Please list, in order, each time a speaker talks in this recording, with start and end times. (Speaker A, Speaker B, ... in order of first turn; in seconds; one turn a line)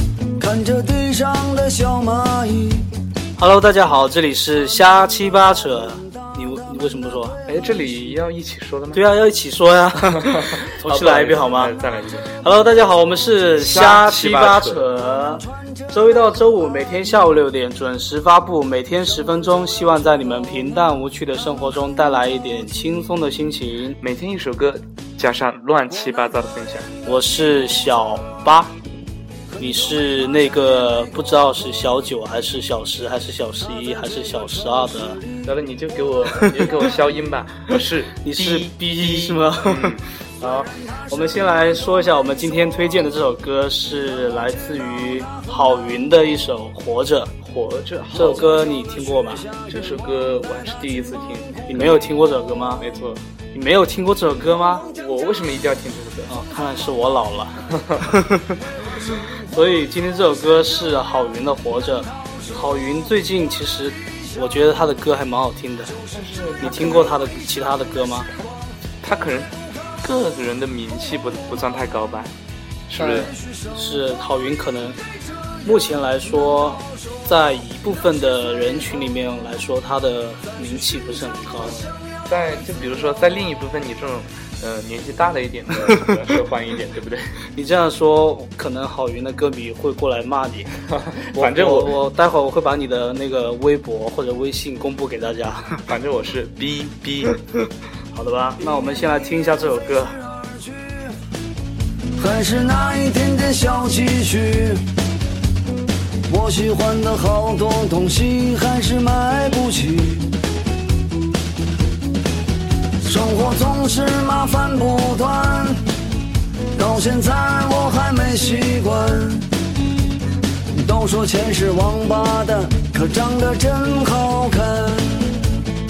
Speaker A: 0.4-2.9
Speaker B: 3.4-7.4
Speaker C: 7.5-9.0
Speaker B: 8.9-11.8
Speaker C: 10.0-12.3
Speaker B: 12.4-24.0
Speaker C: 13.6-14.8
Speaker C: 24.0-26.9
Speaker B: 27.0-28.7
Speaker B: 29.6-35.2
Speaker C: 35.4-40.0
Speaker B: 38.2-47.3
Speaker C: 47.4-48.8
Speaker B: 48.1-49.5
Speaker C: 49.5-52.1
Speaker B: 51.7-52.8
Speaker C: 52.8-53.2
Speaker B: 53.5-54.9
Speaker C: 54.9-56.3
Speaker B: 56.3-58.5
Speaker C: 57.7-58.0
Speaker B: 59.3-66.0
Speaker C: 66.0-67.3
Speaker B: 66.6-68.3
Speaker C: 69.0-72.3
Speaker C: 72.9-73.3
Speaker B: 73.0-75.0
Speaker B: 75.6-81.8
Speaker C: 81.6-87.4
Speaker B: 87.5-90.7
Speaker C: 90.9-91.9
Speaker B: 91.3-95.8
Speaker C: 95.8-97.5
Speaker B: 98.1-100.2
Speaker A: 102.2-104.8
Speaker A: 106.3-110.3
Speaker A: 113.0-115.8
Speaker A: 116.7-119.5
Speaker A: 120.7-125.4